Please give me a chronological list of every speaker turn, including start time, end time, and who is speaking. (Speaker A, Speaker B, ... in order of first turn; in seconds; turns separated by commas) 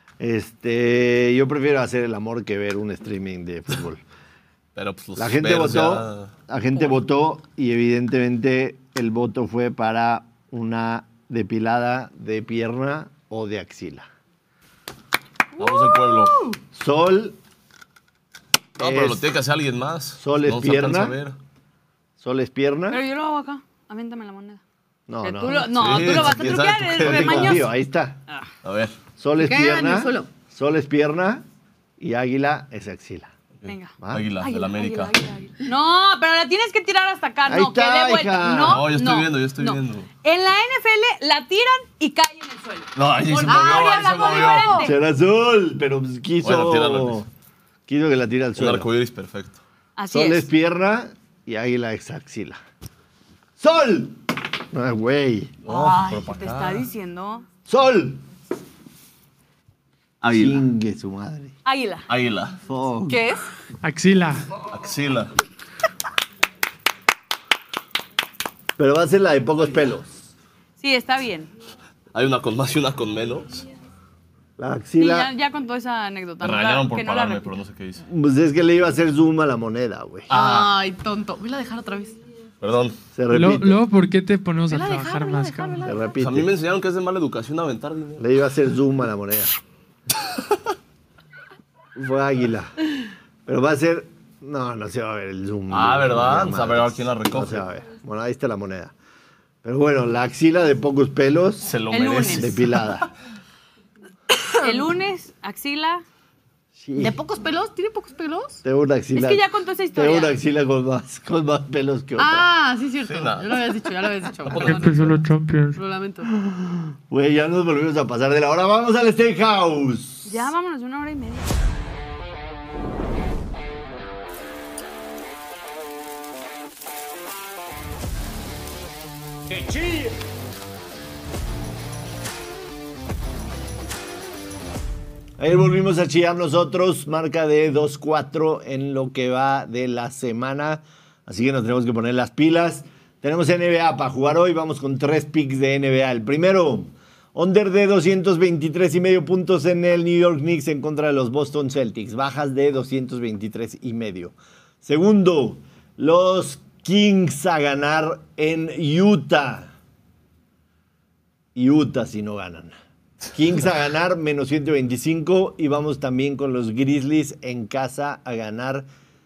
Speaker A: 0.2-4.0, Speaker B: 4.8-6.3, Speaker A: 5.2-14.1, Speaker B: 15.6-16.4, Speaker A: 16.7-17.4, Speaker B: 18.8-21.4, Speaker A: 18.8-19.2, Speaker A: 20.2-21.2, Speaker A: 22.2-23.0, Speaker C: 22.9-24.6, Speaker A: 25.1-28.2, Speaker C: 25.2-27.7, Speaker B: 25.6-27.7, Speaker B: 28.6-29.0, Speaker A: 29.2-31.4, Speaker D: 29.4-30.3, Speaker A: 32.0-33.3, Speaker B: 33.6-35.1, Speaker C: 33.6-45.0, Speaker A: 34.0-34.2, Speaker A: 37.5-38.9, Speaker B: 38.6-40.1, Speaker B: 43.0-44.8, Speaker D: 43.5-44.9, Speaker A: 44.8-47.3, Speaker B: 46.4-47.2, Speaker A: 47.9-48.9, Speaker B: 48.5-49.6, Speaker C: 50.0-50.5, Speaker A: 50.1-52.6, Speaker A: 53.6-54.2, Speaker A: 54.7-55.6, Speaker B: 55.6-56.9, Speaker C: 55.7-57.5, Speaker A: 57.6-58.2, Speaker B: 60.2-60.6, Speaker A: 60.3-61.5, Speaker C: 61.6-62.0, Speaker B: 62.1-62.6, Speaker A: 62.6-63.2, Speaker D: 63.1-63.5, Speaker E: 63.8-64.5, Speaker B: 64.6-65.3, Speaker A: 68.8-70.1, Speaker C: 70.8-71.5, Speaker B: 72.1-73.6, Speaker A: 74.6-75.3, Speaker C: 75.0-77.5, Speaker B: 76.4-78.0, Speaker A: 78.1-80.3, Speaker B: 80.3-80.7, Speaker D: 80.3-82.2, Speaker B: 82.6-83.0, Speaker A: 83.1-83.8, Speaker E: 83.3-85.9, Speaker D: 84.7-86.1, Speaker A: 85.8-86.5, Speaker B: 86.2-88.3, Speaker A: 88.2-89.5, Speaker A: 91.9-92.7, Speaker A: 93.5-98.9, Speaker B: 95.7-97.7, Speaker A: 99.6-101.7, Speaker B: 101.6-103.0, Speaker C: 101.9-102.5, Speaker A: 102.3-103.1, Speaker D: 104.4-104.8, Speaker C: 104.6-106.0, Speaker A: 106.8-107.2, Speaker D: 107.0-108.6, Speaker A: 108.6-109.4, Speaker C: 109.1-110.3, Speaker A: 109.9-112.5, Speaker D: 112.2-115.0, Speaker B: 113.0-113.7, Speaker B: 114.4-115.2, Speaker E: 114.5-115.8, Speaker D: 115.8-116.3, Speaker A: 116.3-120.4, Speaker C: 120.2-121.6, Speaker A: 135.4-159.7, Speaker A: 161.5-162.8, Speaker A: 163.3-168.9